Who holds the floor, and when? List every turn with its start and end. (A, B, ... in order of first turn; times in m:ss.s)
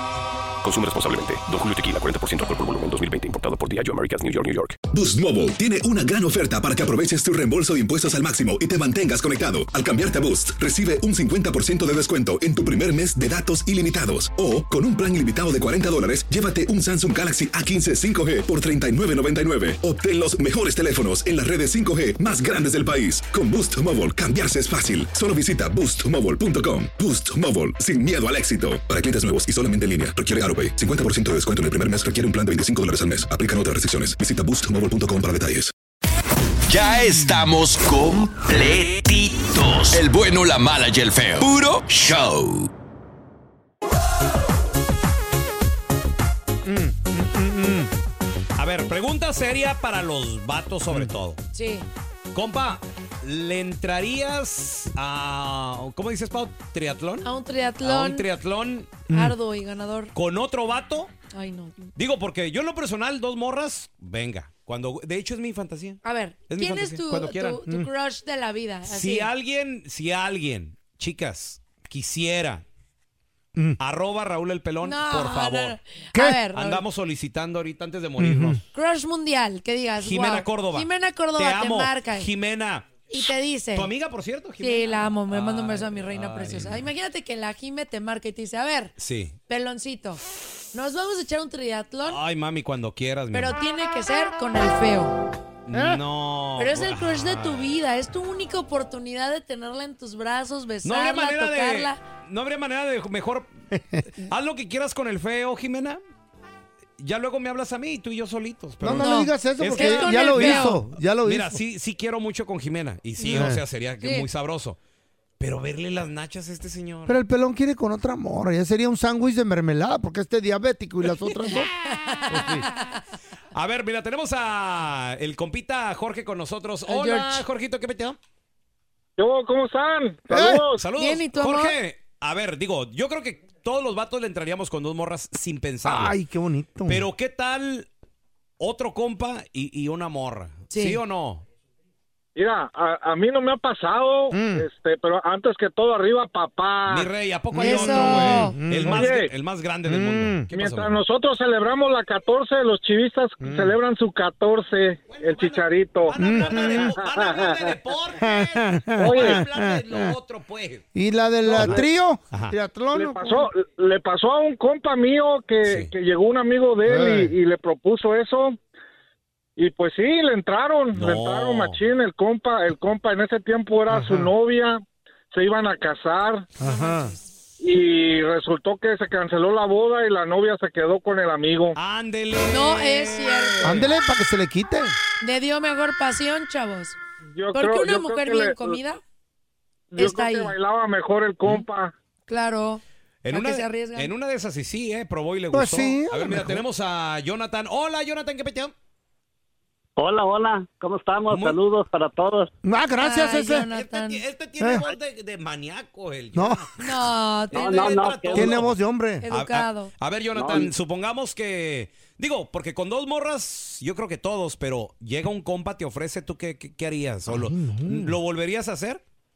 0:00.6-0:04.8 A
0:04.9-0:35.7 B
0:36.7-0:42.7 C
0:46.6-0:47.9 D
0:48.6-0:51.4 E
0:51.5-0:51.8 F
0:52.3-0:57.3 E
0:57.2-0:58.3 F
0:57.8-0:59.0 E
0:59.1-0:59.4 D
0:59.1-1:00.1 F
1:00.1-1:01.1 E
1:01.3-1:01.9 F
1:02.0-1:07.6 E
1:06.0-1:09.3 F
1:08.9-1:12.6 E
1:13.8-1:15.8 E
1:14.8-1:16.8 F
1:16.1-1:16.4 D
1:16.5-1:18.6 E
1:18.2-1:18.6 D
1:18.7-1:22.3 F
1:20.0-1:23.1 E
1:23.1-1:23.9 F
1:23.7-1:26.9 E
1:24.6-1:28.9 F
1:29.0-1:29.4 E
1:29.5-1:30.2 F
1:30.7-1:32.2 F
1:32.0-1:33.6 E
1:33.3-1:35.2 F
1:35.6-1:37.7 E
1:35.7-1:36.0 D
1:36.6-1:42.0 F
1:40.8-1:43.5 E
1:43.7-1:44.0 D
1:44.2-1:46.0 E
1:47.0-1:54.8 E
1:48.8-1:51.6 D
1:48.9-1:50.8 F
1:53.2-1:53.5 F
1:53.3-1:53.6 D
1:55.4-1:57.2 E
1:57.0-2:01.7 D
2:01.8-2:03.0 F
2:02.3-2:02.6 E
2:02.3-2:02.6 D
2:03.5-2:08.2 E
2:06.9-2:07.4 F
2:09.2-2:10.8 G
2:10.3-2:10.6 D
2:10.8-2:16.2 E
2:11.0-2:11.7 F
2:15.8-2:17.0 D
2:16.9-2:17.9 E
2:18.6-2:21.4 E
2:20.7-2:21.0 F
2:22.4-2:27.1 G
2:24.3-2:24.6 D
2:26.9-2:31.0 E
2:27.5-2:29.1 D
2:27.6-2:28.6 F
2:28.9-2:29.3 G
2:29.8-2:30.5 D
2:30.5-2:37.7 G
2:33.4-2:33.7 D
2:35.1-2:40.8 E
2:36.2-2:36.9 D
2:38.2-2:40.1 D
2:39.0-2:39.4 G
2:40.9-2:43.5 D
2:41.5-2:42.5 E
2:42.9-2:48.6 G
2:45.6-2:45.9 E
2:46.8-2:47.3 D
2:49.6-2:54.8 G
2:50.9-2:51.8 E
2:53.9-2:54.3 D
2:55.3-2:56.5 G
2:56.6-2:57.1 D
2:56.6-2:57.2 F
2:57.6-3:01.8 G
3:01.8-3:03.9 E
3:02.5-3:03.7 F
3:03.6-3:05.0 D
3:05.2-3:07.0 F
3:07.3-3:08.8 G
3:07.5-3:09.0 F
3:09.9-3:11.9 G
3:10.0-3:10.5 F
3:12.3-3:14.1 F
3:13.2-3:18.7 E
3:15.5-3:16.6 D
3:20.0-3:22.5 H
3:21.3-3:21.6 E
3:22.6-3:23.7 D
3:23.0-3:24.2 F
3:23.4-3:26.8 E
3:24.6-3:24.8 D
3:26.3-3:26.7 D
3:26.8-3:28.2 F
3:27.5-3:28.5 H
3:27.5-3:28.8 E
3:28.3-3:29.2 D
3:29.2-3:29.9 F
3:29.3-3:39.0 E
3:30.4-3:30.7 H
3:37.3-3:38.2 D